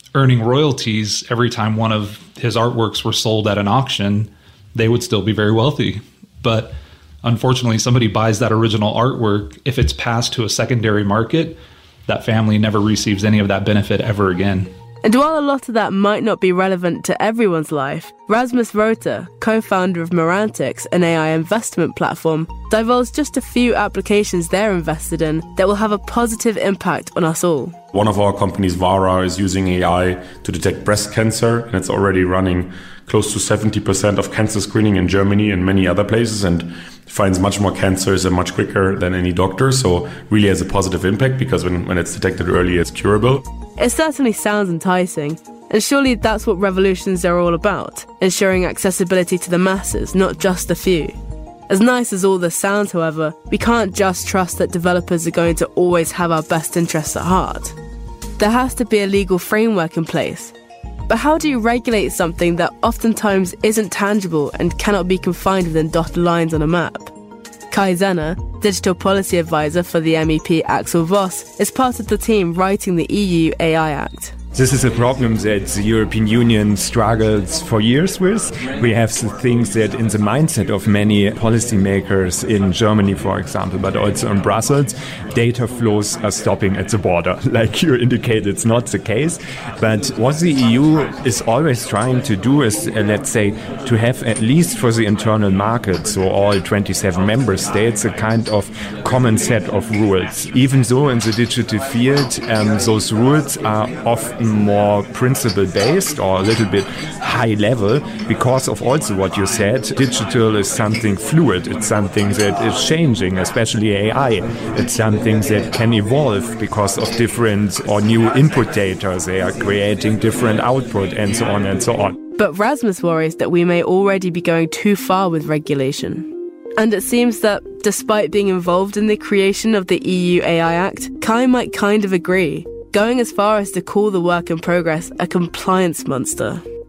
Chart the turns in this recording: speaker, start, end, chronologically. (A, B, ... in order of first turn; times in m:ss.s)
0:00.1-0:14.7 A
0:15.0-0:27.8 B
0:27.9-0:43.4 C
0:43.8-0:51.2 B
0:51.7-0:57.7 B
0:58.4-1:00.5 B
1:01.1-1:07.1 B
1:07.7-1:14.3 B
1:14.5-2:02.2 D
2:02.4-2:16.6 B